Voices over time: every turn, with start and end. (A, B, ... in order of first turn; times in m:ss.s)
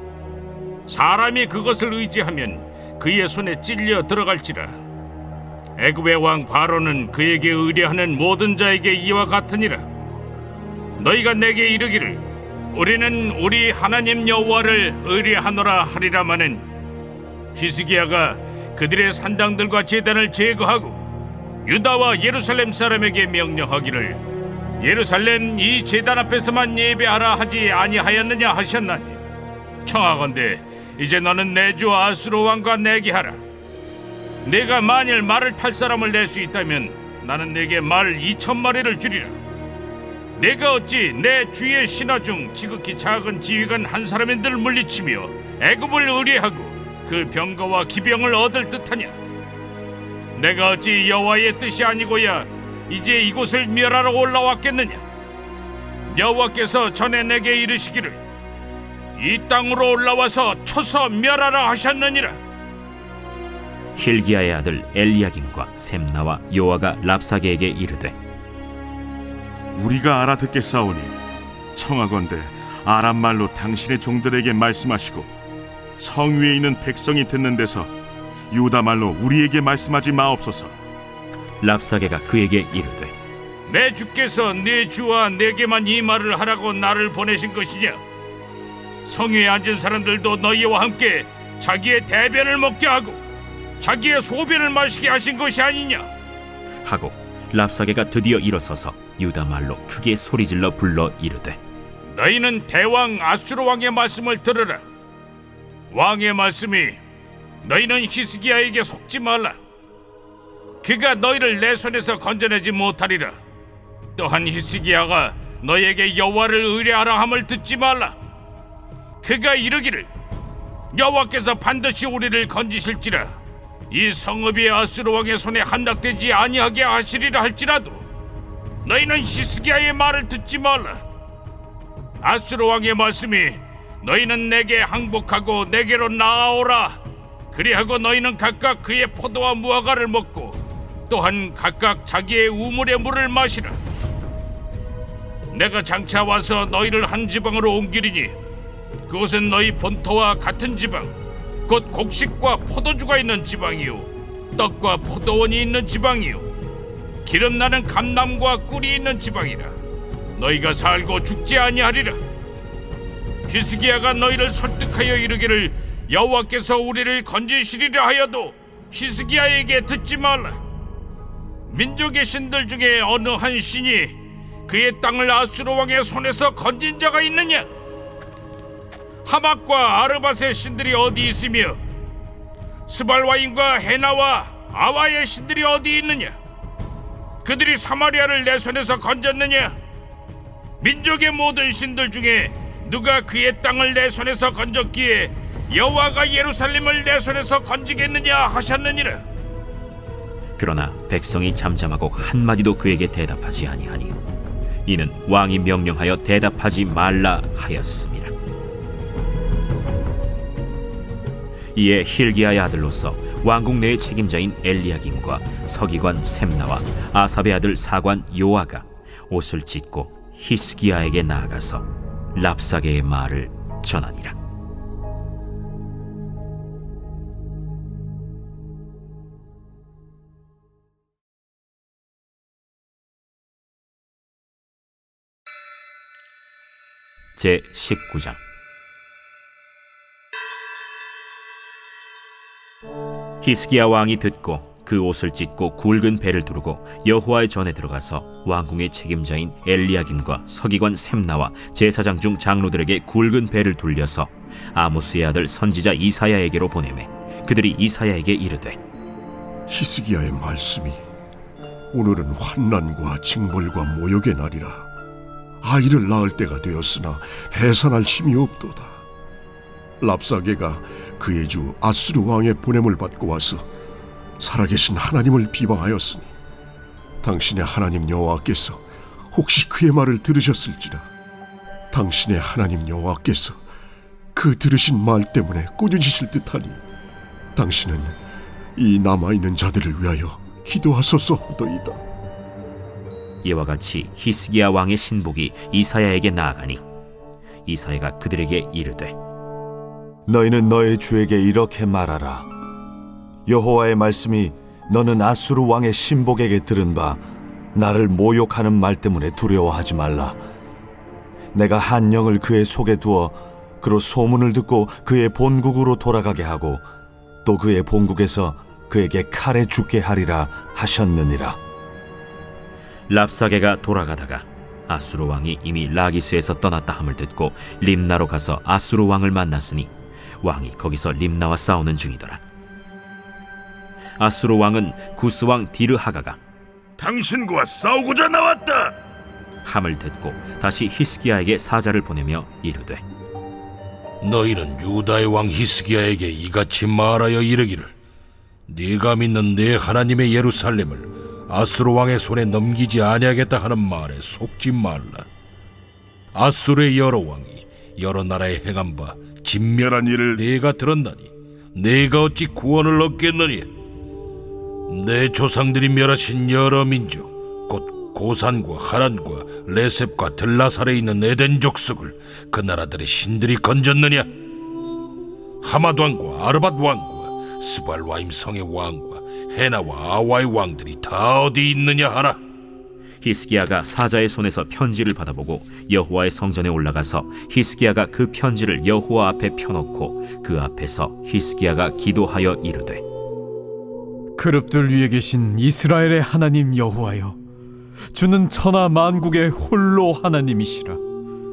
0:00.9-0:04.8 A
0:05.8-0:09.8 A
0:11.0-0:16.6 A
0:17.5-0:21.0 A
0:21.6-0:24.2 A
0:24.8-0:29.2 A
0:29.8-0:33.4 A
0:34.4-0:39.4 A
0:40.4-0:49.1 A
0:50.4-0:55.0 A
0:56.1-0:58.2 A
0:59.2-1:02.4 A
1:04.0-1:08.2 B
1:09.8-1:11.2 C
1:11.7-1:15.3 C
1:16.0-1:17.9 C
1:18.5-1:20.7 C
1:21.6-1:23.1 B
1:23.7-1:28.0 A
1:29.0-1:33.2 A
1:33.8-1:36.1 A
1:36.8-1:41.6 B
1:42.1-1:44.8 A
1:45.9-1:47.0 A
1:47.6-1:49.6 A
1:50.8-1:53.3 A
1:54.2-1:58.2 A
1:59.2-2:00.1 A
2:00.9-2:03.3 A
2:03.9-2:08.0 A
2:08.8-2:11.0 A
2:12.2-2:17.0 A
2:17.5-2:20.6 A
2:21.1-2:23.8 A
2:25.5-2:28.3 A
2:29.1-2:31.1 A
2:31.7-2:36.5 A
2:37.2-2:39.7 A
2:40.4-2:42.2 A
2:43.5-2:50.6 A
2:51.7-2:57.7 A
2:59.2-3:01.8 A
3:02.9-3:06.3 A
3:07.4-3:09.8 A
3:10.8-3:19.2 A
3:20.6-3:24.1 B
3:24.8-3:28.3 B
3:31.7-3:44.4 B
3:57.4-3:58.4 B
4:03.4-4:18.8 B
4:19.7-4:21.0 D
4:21.9-4:24.9 D
4:25.6-4:29.0 D
4:30.0-4:33.6 D
4:34.4-4:36.3 D
4:37.2-4:41.1 D
4:41.9-4:43.6 D
4:44.3-4:46.8 D
4:47.6-4:48.2 D
4:48.8-4:52.0 D
4:53.4-4:56.8 B
4:57.6-4:59.2 B
5:00.3-5:02.5 E
5:03.5-5:07.2 E
5:07.7-5:10.4 E
5:11.5-5:16.8 E
5:17.4-5:21.6 E
5:23.1-5:32.4 B
5:34.2-5:36.4 B
5:37.0-5:38.9 F
5:39.6-5:43.0 B
5:44.2-5:47.9 F
5:48.7-5:55.3 F
5:56.3-6:03.7 F
6:04.9-6:14.3 F
6:15.6-6:22.4 F
6:23.2-6:33.0 B
6:34.4-6:37.4 G
6:38.1-6:41.0 G